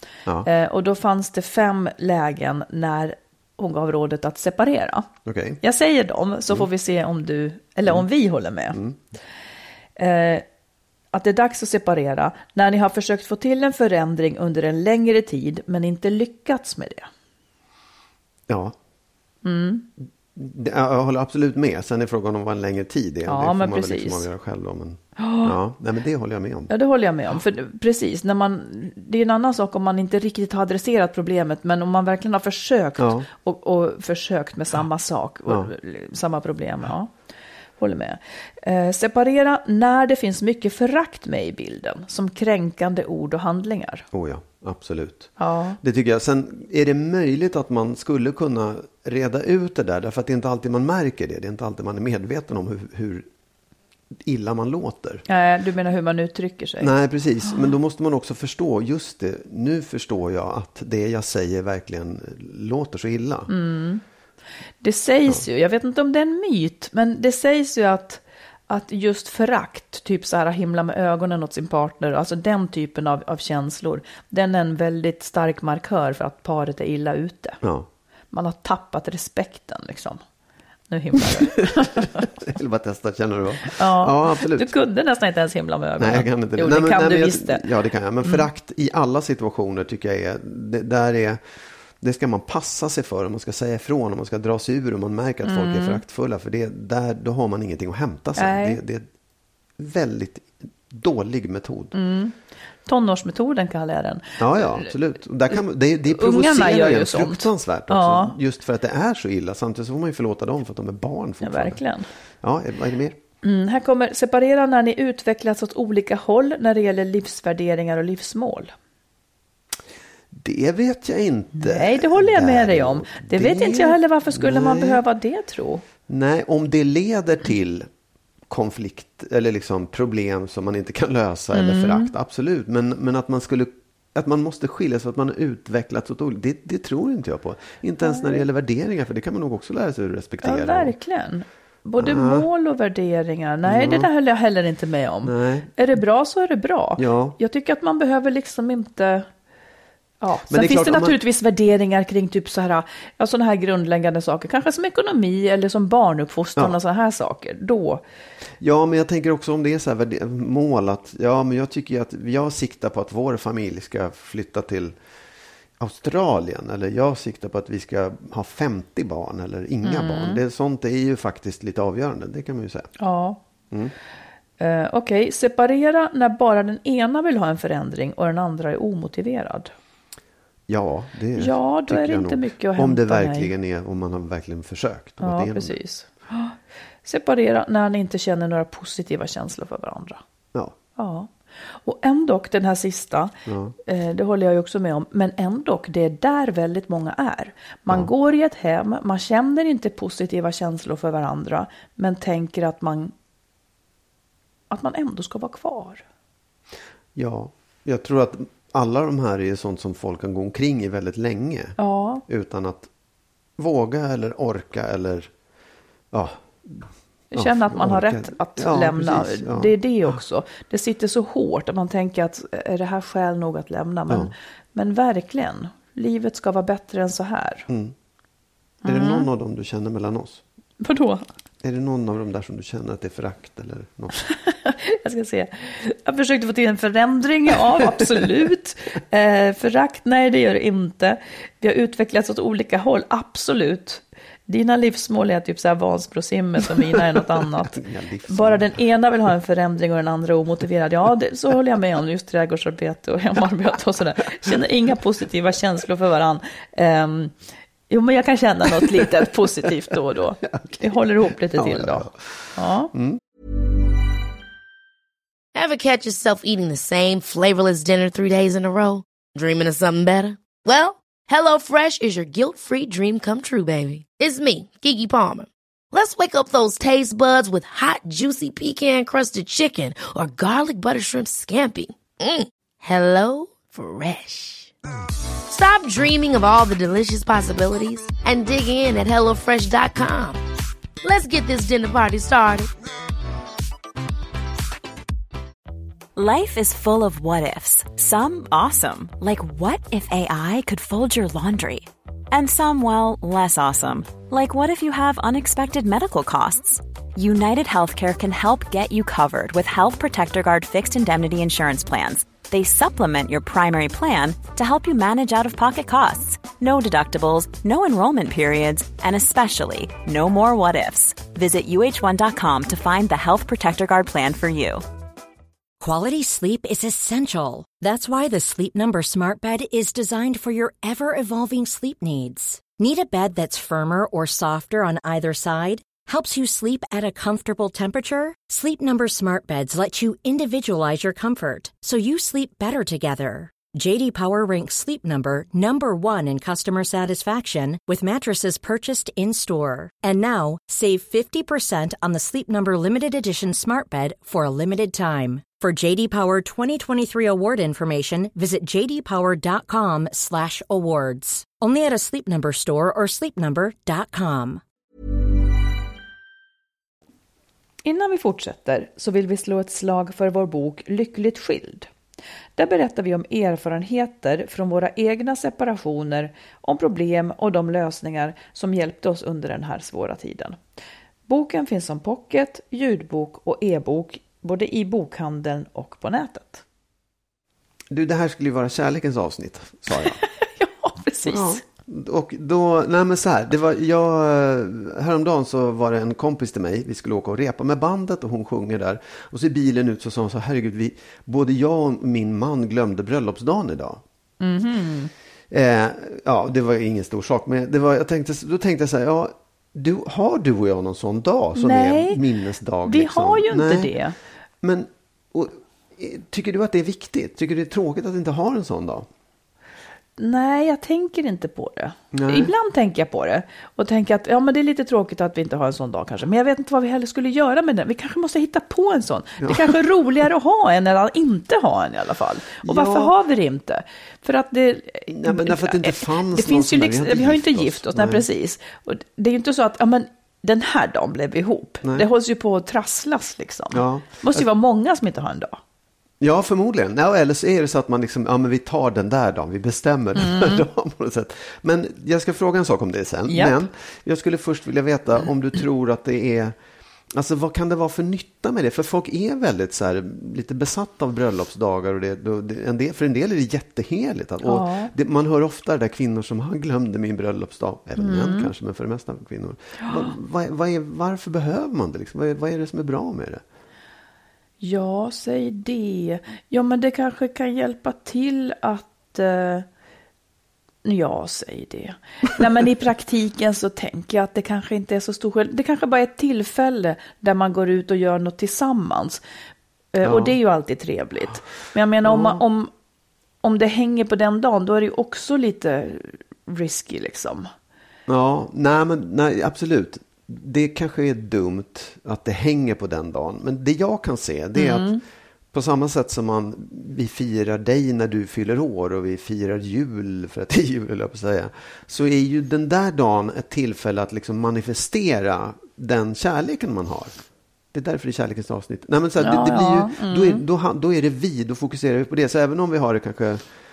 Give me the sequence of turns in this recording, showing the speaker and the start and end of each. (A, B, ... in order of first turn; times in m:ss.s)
0:00.4-0:05.1 A
0:05.2-0:05.6 B
0:05.6-0:08.8 A
0:08.7-0:09.0 B
0:10.0-0:10.4 A
0:11.1-0:17.1 A
0:18.5-0:18.8 B
0:19.4-0:19.9 A
0:20.4-0:26.7 B
0:23.3-0:24.3 A
0:25.2-0:25.6 A
0:26.7-0:37.1 A
0:33.0-0:33.3 B
0:37.8-0:44.1 A
0:44.1-0:53.3 B
0:45.4-0:45.8 A
0:54.2-0:55.2 B
0:55.3-0:56.9 A
0:56.8-1:03.5 B
1:03.5-1:04.0 A
1:04.8-1:17.6 A
1:17.6-1:17.9 B
1:18.3-1:20.2 A
1:20.9-1:22.3 A
1:21.4-1:24.7 B
1:23.6-1:27.6 A
1:26.0-1:31.4 B
1:28.2-1:28.5 A
1:32.0-1:39.1 B
1:35.4-1:36.0 A
1:38.4-1:38.8 A
1:39.8-1:41.9 B
1:41.9-1:44.9 A
1:44.4-1:51.8 B
1:45.5-1:48.4 A
1:51.4-1:52.1 A
1:52.4-1:53.2 B
1:53.4-1:58.7 A
2:00.3-2:05.0 B
2:01.6-2:05.8 A
2:06.1-2:07.9 B
2:08.5-2:21.0 B
2:11.5-2:12.1 A
2:18.0-2:18.4 A
2:20.4-2:29.3 A
2:22.0-2:22.5 B
2:23.6-2:24.1 B
2:25.2-2:25.7 B
2:27.0-2:27.4 B
2:30.2-2:38.0 A
2:30.5-2:31.2 B
2:38.6-2:45.0 B
2:45.8-2:52.9 B
2:49.8-2:50.4 A
2:53.0-2:53.4 A
2:54.6-2:59.7 A
3:00.7-3:05.8 B
3:01.4-3:03.5 A
3:05.2-3:10.2 A
3:11.0-3:11.3 A
3:11.8-3:13.3 A
3:13.5-3:13.8 B
3:13.9-3:23.1 A
3:24.7-3:26.0 A
3:27.2-3:32.9 B
3:31.8-3:32.2 A
3:33.6-3:35.3 B
3:36.1-3:40.2 B
3:37.3-3:47.7 A
3:44.1-3:44.3 B
3:47.7-3:48.0 B
3:48.8-3:49.3 A
3:48.8-3:50.4 B
3:50.8-3:51.3 A
3:51.6-3:54.2 B
3:54.3-4:07.8 A
3:57.6-3:58.2 B
4:06.7-4:08.7 B
4:08.3-4:17.3 A
4:17.9-4:22.9 A
4:20.4-4:23.2 B
4:25.5-4:44.7 C
4:45.5-4:50.4 C
4:51.0-4:52.7 C
4:56.2-5:24.8 D
5:25.8-6:04.6 E
6:07.8-6:11.9 A
6:12.6-6:20.6 A
6:21.3-6:26.6 A
6:27.9-6:30.2 B
6:30.1-6:31.6 A
6:31.3-6:44.0 B
6:44.4-6:45.1 A
6:45.5-6:54.0 B
6:51.6-6:52.2 A
6:52.9-6:54.2 A
6:54.6-6:59.1 B
7:00.2-7:25.6 A
7:02.1-7:02.5 B
7:09.4-7:09.8 B
7:12.6-7:13.1 B
7:15.1-7:18.2 B
7:23.7-7:24.4 B
7:26.2-7:36.6 B
7:30.2-7:30.6 A
7:33.3-7:33.6 A
7:37.1-7:53.4 B
7:44.4-7:44.9 A
7:48.0-7:48.5 A
7:49.8-7:50.1 A
7:54.6-7:59.7 A
8:00.8-8:09.2 A
8:09.9-8:12.7 A
8:10.0-8:10.4 B
8:12.0-8:12.4 B
8:13.4-8:17.5 A
8:18.1-8:25.0 B
8:24.6-8:25.0 A
8:25.5-8:37.2 B
8:37.7-8:43.5 B
8:39.2-8:40.4 A